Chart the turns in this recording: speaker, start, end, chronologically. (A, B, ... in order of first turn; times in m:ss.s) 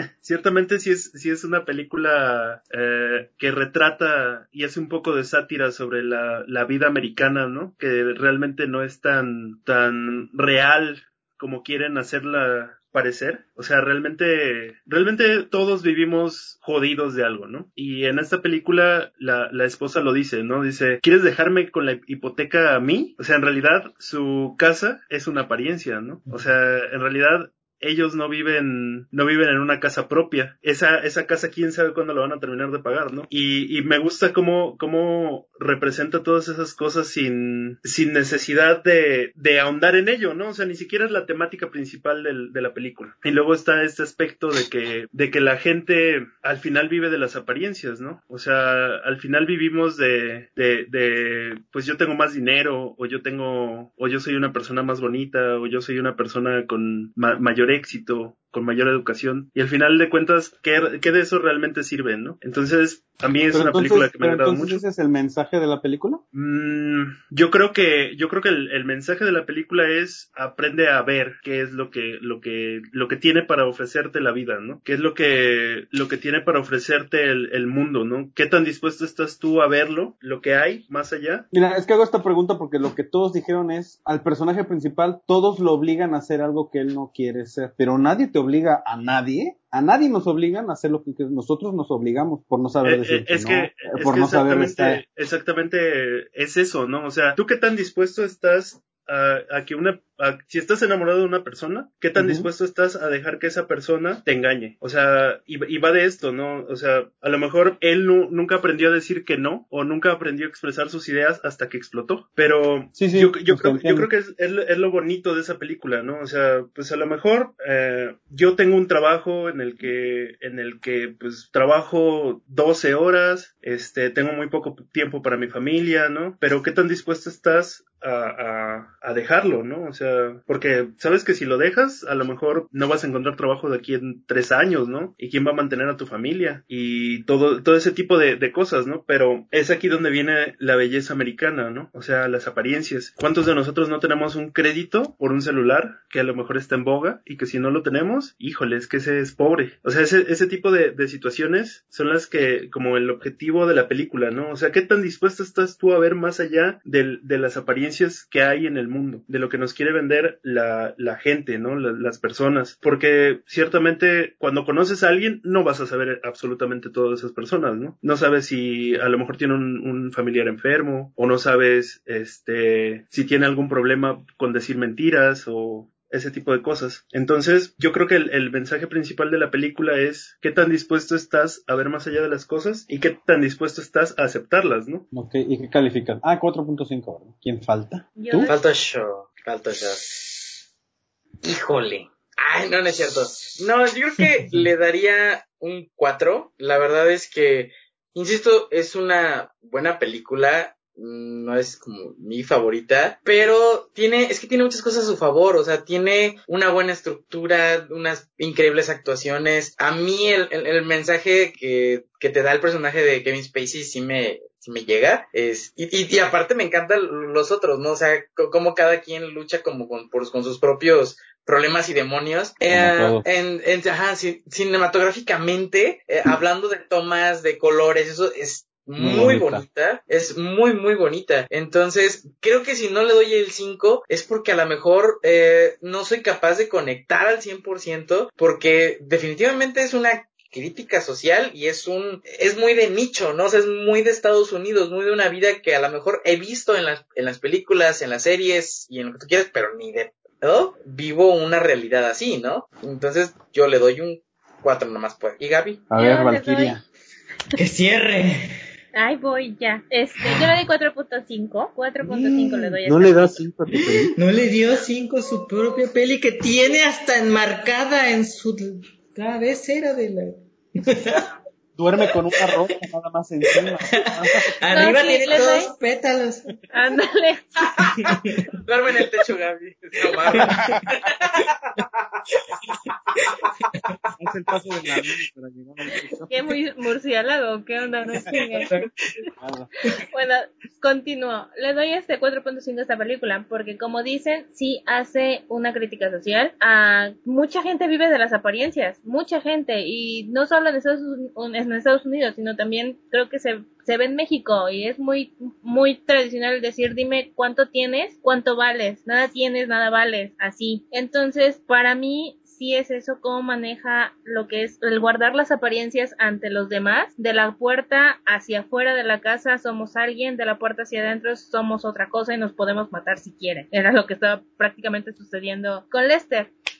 0:00.2-1:04.8 A
1:03.5-1:06.2 B
1:06.3-1:21.5 A
1:21.5-1:35.0 B
1:32.8-3:05.1 A
1:42.2-1:42.5 B
1:53.0-1:54.1 B
3:05.1-3:08.6 B
3:08.2-3:08.6 C
3:08.5-3:10.5 D
3:11.4-4:15.9 D
3:42.7-3:43.2 B
3:49.0-3:49.6 B
4:15.9-4:16.8 B
4:16.0-4:16.8 C
4:17.6-4:18.5 E
4:19.0-4:23.4 C
4:20.2-4:20.5 E
4:22.0-4:24.2 B
4:23.9-4:31.3 E
4:31.8-4:34.9 B
4:32.4-4:32.8 E
4:33.6-4:36.6 E
4:34.7-4:35.7 C
4:36.7-4:37.7 C
4:37.8-4:42.2 D
4:37.8-4:38.5 E
4:40.3-4:40.9 E
4:40.3-4:40.9 B
4:42.7-4:44.0 E
4:44.2-4:46.6 B
4:46.3-4:48.7 C
4:48.1-4:48.4 B
4:49.4-4:49.7 B
4:49.9-5:26.5 C